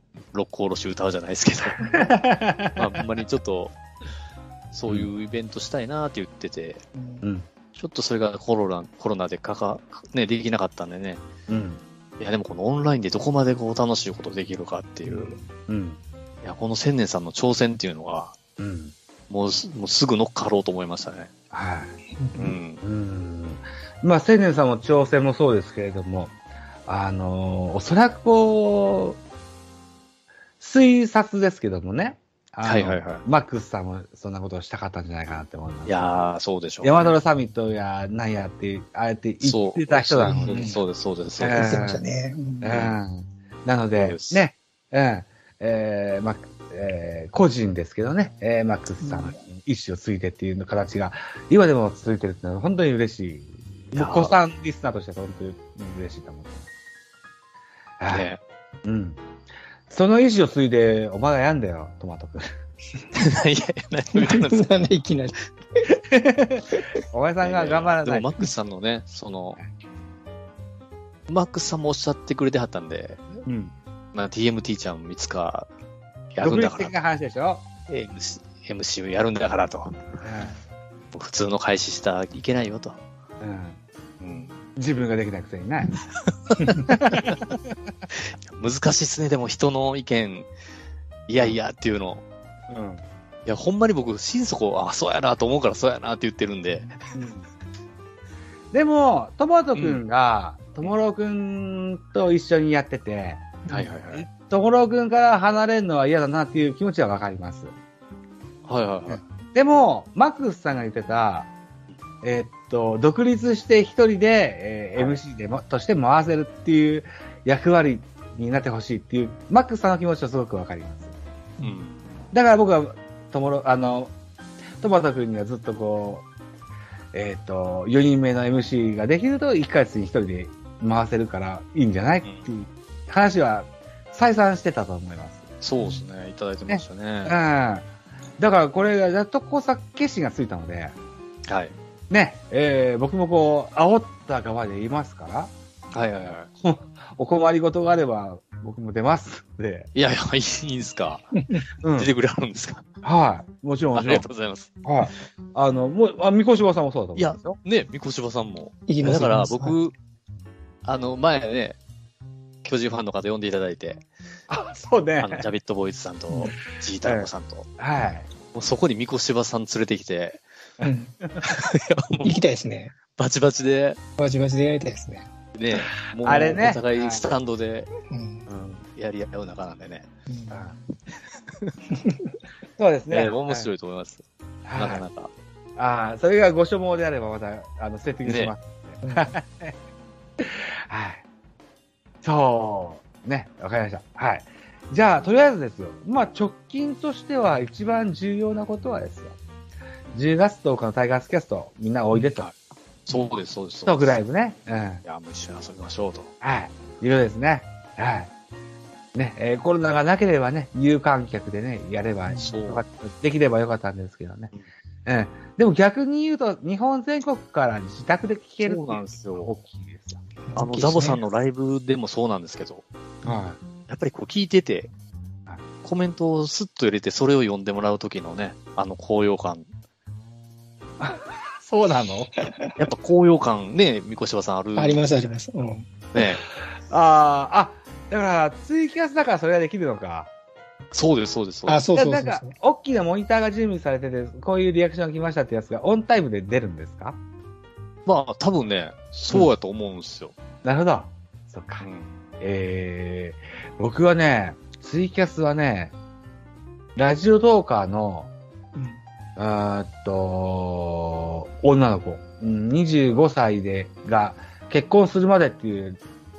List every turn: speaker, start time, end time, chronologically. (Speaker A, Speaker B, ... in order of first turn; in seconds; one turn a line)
Speaker A: 0.3-1.9
Speaker B: 1.9-3.0
Speaker A: 2.8-3.8
Speaker A: 4.7-6.8
Speaker C: 7.0-7.2
Speaker A: 7.8-11.2
Speaker B: 11.5-11.8
Speaker A: 12.2-15.4
Speaker B: 15.1-16.0
Speaker A: 16.4-18.4
Speaker B: 18.6-18.9
Speaker A: 19.3-21.3
Speaker B: 21.5-21.9
Speaker C: 22.1-22.5
Speaker A: 22.4-22.8
Speaker B: 22.8-29.2
Speaker B: 30.6-36.3
Speaker A: 32.6-33.2
Speaker A: 35.9-37.1
Speaker B: 36.8-40.8
Speaker A: 39.4-41.8
Speaker C: 40.3-40.8
Speaker B: 41.4-42.0
Speaker C: 41.5-42.8
Speaker B: 42.6-56.7
Speaker A: 42.7-43.0
Speaker A: 44.0-44.5
Speaker C: 49.0-49.4
Speaker A: 53.9-54.4
Speaker B: 58.0-58.3
Speaker A: 58.1-58.4
Speaker B: 58.9-59.2
Speaker B: 59.9-62.5
Speaker A: 63.1-64.9
Speaker C: 64.2-65.9
Speaker B: 66.0-68.3
Speaker A: 67.4-69.6
Speaker A: 71.3-73.4
Speaker B: 73.5-73.7
Speaker A: 74.1-75.7
Speaker A: 76.3-77.0
Speaker B: 76.4-77.6
Speaker A: 77.9-80.1
Speaker B: 80.2-80.6
Speaker A: 81.1-83.0
Speaker B: 83.4-83.8
Speaker A: 84.2-84.5
Speaker B: 84.8-86.0
Speaker A: 86.3-87.4
Speaker B: 86.8-87.6
Speaker A: 88.1-90.5
Speaker A: 91.3-92.2
Speaker B: 92.7-93.0
Speaker A: 93.5-97.0
Speaker B: 97.1-97.5
Speaker B: 98.7-103.6
Speaker A: 99.7-100.0
Speaker A: 103.7-104.3
Speaker B: 104.1-107.7
Speaker A: 108.7-109.2
Speaker B: 109.1-111.5
Speaker B: 112.2-121.1
Speaker A: 121.6-122.1
Speaker B: 122.3-124.1
Speaker B: 124.8-126.3
Speaker B: 127.1-135.5
Speaker A: 132.2-132.5
Speaker A: 135.6-137.4
Speaker B: 136.7-137.9
Speaker B: 138.4-141.0
Speaker A: 141.5-141.8
Speaker B: 142.1-145.5
Speaker A: 145.9-146.5
Speaker B: 146.6-149.9
Speaker A: 149.9-151.4
Speaker B: 151.8-152.1
Speaker A: 151.9-152.9
Speaker B: 153.0-154.3
Speaker A: 153.9-154.7
Speaker B: 154.8-157.6
Speaker A: 157.2-159.9
Speaker C: 158.9-159.8
Speaker A: 160.8-161.8
Speaker A: 162.6-164.0
Speaker B: 164.5-165.4
Speaker A: 165.2-167.7
Speaker B: 167.0-168.3
Speaker A: 168.5-170.4
Speaker B: 170.8-171.3
Speaker C: 170.8-171.2
Speaker A: 171.4-172.4
Speaker C: 172.2-172.9
Speaker A: 173.1-174.0
Speaker C: 174.2-175.3
Speaker A: 175.6-177.9
Speaker B: 176.2-177.2
Speaker C: 178.1-178.5
Speaker B: 178.5-178.8
Speaker A: 179.0-180.1
Speaker C: 180.3-180.7
Speaker B: 180.5-180.8
Speaker C: 181.9-182.3
Speaker B: 182.8-183.7
Speaker A: 183.1-184.2
Speaker B: 184.7-185.1
Speaker A: 184.8-185.3
Speaker B: 185.8-189.8
Speaker A: 188.2-188.5
Speaker C: 189.0-189.4
Speaker B: 190.4-191.2
Speaker B: 192.2-199.4
Speaker B: 200.1-202.5
Speaker A: 203.1-204.2
Speaker B: 203.9-205.0
Speaker A: 205.0-206.3
Speaker B: 206.4-208.3
Speaker B: 209.2-214.5
Speaker C: 212.3-212.5
Speaker A: 212.4-212.8
Speaker B: 215.1-220.2
Speaker A: 218.6-219.5
Speaker C: 220.5-221.2
Speaker A: 220.6-222.9
Speaker B: 223.2-223.6
Speaker A: 223.9-224.9
Speaker A: 225.8-229.7
Speaker B: 231.0-232.3
Speaker A: 232.8-235.0
Speaker C: 234.8-235.9
Speaker A: 236.1-236.4
Speaker B: 236.9-240.3
Speaker A: 240.9-241.9
Speaker C: 241.7-242.5
Speaker B: 241.9-247.2
Speaker A: 248.1-250.3
Speaker B: 250.6-251.9
Speaker A: 251.8-252.2
Speaker B: 252.4-255.9
Speaker B: 257.0-258.3
Speaker C: 258.8-259.0
Speaker B: 259.4-266.0